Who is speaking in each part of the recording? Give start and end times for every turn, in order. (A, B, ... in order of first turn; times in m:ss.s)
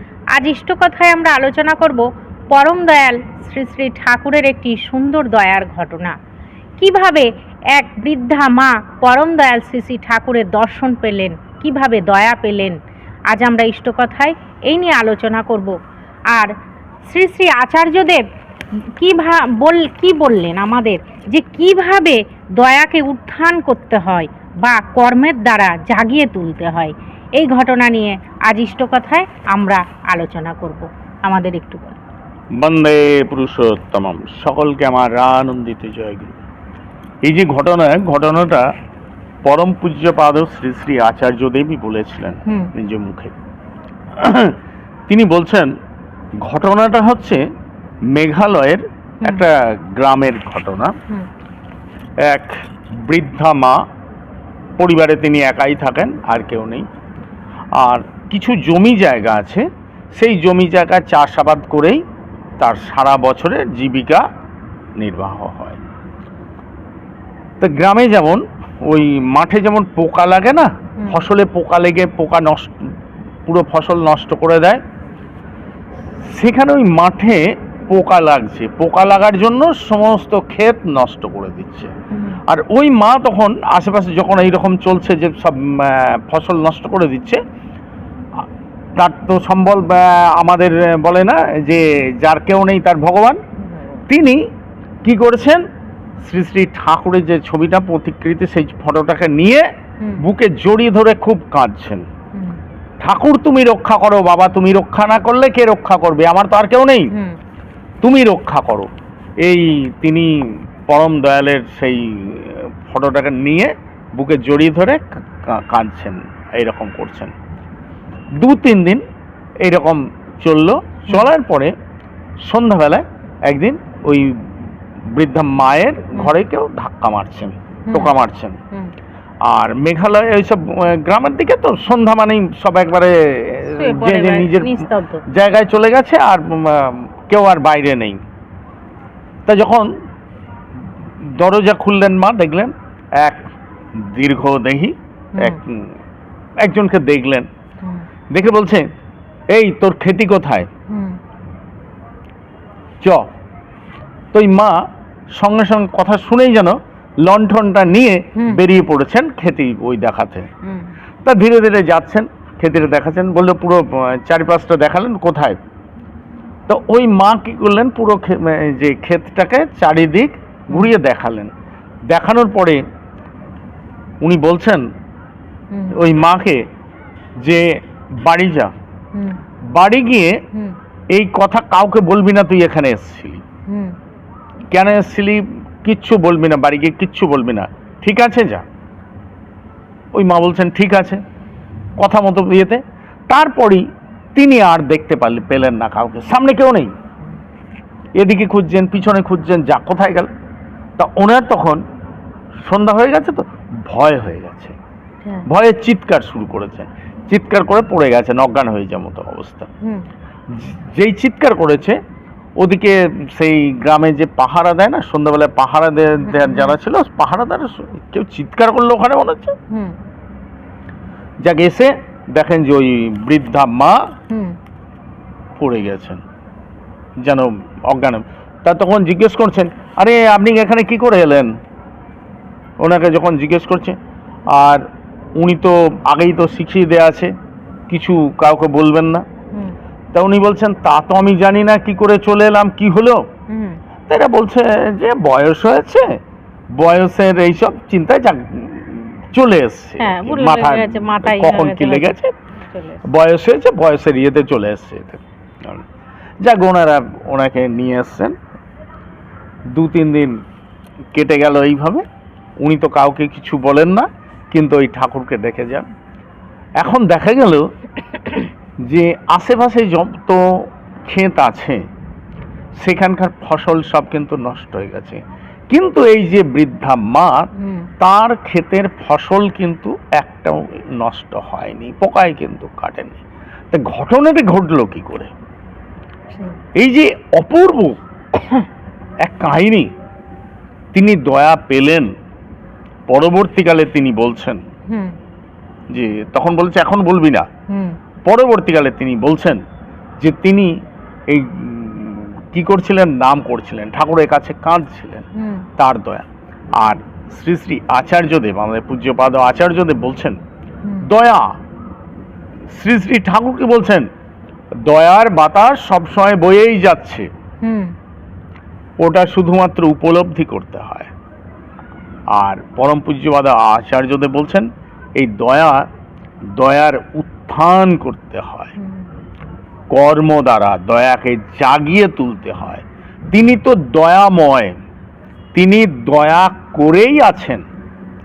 0:00.4-0:06.2 A
0:06.8-0:12.8 A
0:13.3-0:15.8 A
0:17.0-0:18.2 A
0:19.0-0:32.0 A
0:32.6-0:36.4 B
0:37.2-0:38.7 B
0:39.4-0:43.3 B
0:44.2-0:44.6 B
0:45.1-0:45.7 B
0:46.4-0:47.4 B
0:48.1-0:51.0 B
0:52.2-0:53.8 B
0:54.8-0:56.9 B
0:57.8-1:02.0 B
1:02.6-1:04.2 B
1:05.0-1:05.8 B
1:07.6-1:12.9 B
1:11.0-1:11.3 A
1:13.5-1:14.8 B
1:16.3-1:21.9 B
1:22.1-1:22.4 A
1:22.5-1:27.4 B
1:29.0-1:33.4 B
1:33.7-1:34.0 A
1:34.1-1:34.4 B
1:35.0-1:35.6 B
1:36.2-1:39.7 B
1:40.2-1:42.0 B
1:42.4-1:42.6 A
1:43.0-1:47.1 B
1:48.0-1:48.9 B
1:49.4-1:50.3 B
1:50.9-1:57.3 B
1:58.4-1:59.0 B
1:59.6-2:01.7 B
2:02.4-2:04.5 B
2:05.1-2:08.6 B
2:07.9-2:08.2 A
2:09.5-2:18.2 B
2:13.7-2:15.2 A
2:19.5-2:19.9 B
2:21.2-2:23.5 B
2:24.1-2:25.8 B
2:25.3-2:25.6 A
2:26.6-2:27.5 B
2:28.3-2:28.8 B
2:29.5-2:30.7 B
2:30.9-2:31.2 A
2:34.3-2:34.8 B
2:35.4-2:40.5 B
2:38.4-2:38.6 A
2:40.7-2:40.9 A
2:41.2-2:45.6 B
2:46.7-2:51.5 B
2:52.1-2:52.8 B
2:54.2-2:54.8 B
2:55.7-2:56.0 A
2:55.9-2:56.6 B
2:57.4-2:58.7 B
2:59.7-3:00.4 B
3:01.1-3:03.4 B
3:04.7-3:08.6 B
3:10.1-3:11.2 B
3:12.0-3:16.9 B
3:18.2-3:20.3 B
3:21.0-3:21.8 B
3:22.6-3:24.8 B
3:25.5-3:29.7 B
3:30.5-3:32.0 B
3:32.6-3:39.6 B
3:36.2-3:36.8 A
3:39.7-3:40.0 A
3:41.4-3:44.0 B
3:44.3-3:44.6 A
3:45.6-3:46.2 B
3:47.2-3:51.5 B
3:52.8-3:54.0 B
3:54.5-3:54.9 B
3:55.4-3:57.3 B
3:57.9-3:59.2 B
4:00.1-4:03.2 B
4:03.5-4:03.8 A
4:04.1-4:06.1 B
4:06.8-4:12.3 B
4:10.0-4:13.0 A
4:13.1-4:15.8 B
4:16.4-4:18.4 B
4:19.7-4:20.4 B
4:21.1-4:22.0 B
4:22.6-4:25.9 B
4:26.8-4:27.6 B
4:28.9-4:30.4 B
4:31.0-4:31.8 B
4:32.8-4:35.2 B
4:35.7-4:37.5 B
4:37.6-4:37.9 A
4:38.0-4:43.2 B
4:43.7-4:45.3 B
4:46.8-4:48.0 B
4:49.2-4:49.9 B
4:50.9-4:52.1 B
4:53.1-4:54.6 B
4:54.9-4:55.2 A
4:55.9-4:57.5 B
4:57.7-4:58.0 A
4:58.3-4:59.6 B
5:00.2-5:00.7 B
5:01.3-5:05.2 B
5:05.4-5:05.7 A
5:05.8-5:06.3 B
5:06.8-5:10.4 B
5:11.0-5:11.5 B
5:12.7-5:14.1 B
5:14.8-5:17.3 B
5:17.6-5:17.9 A
5:19.0-5:21.1 B
5:22.4-5:25.9 B
5:26.6-5:28.7 B
5:28.8-5:29.1 A
5:29.9-5:34.8 B
5:35.6-5:37.6 B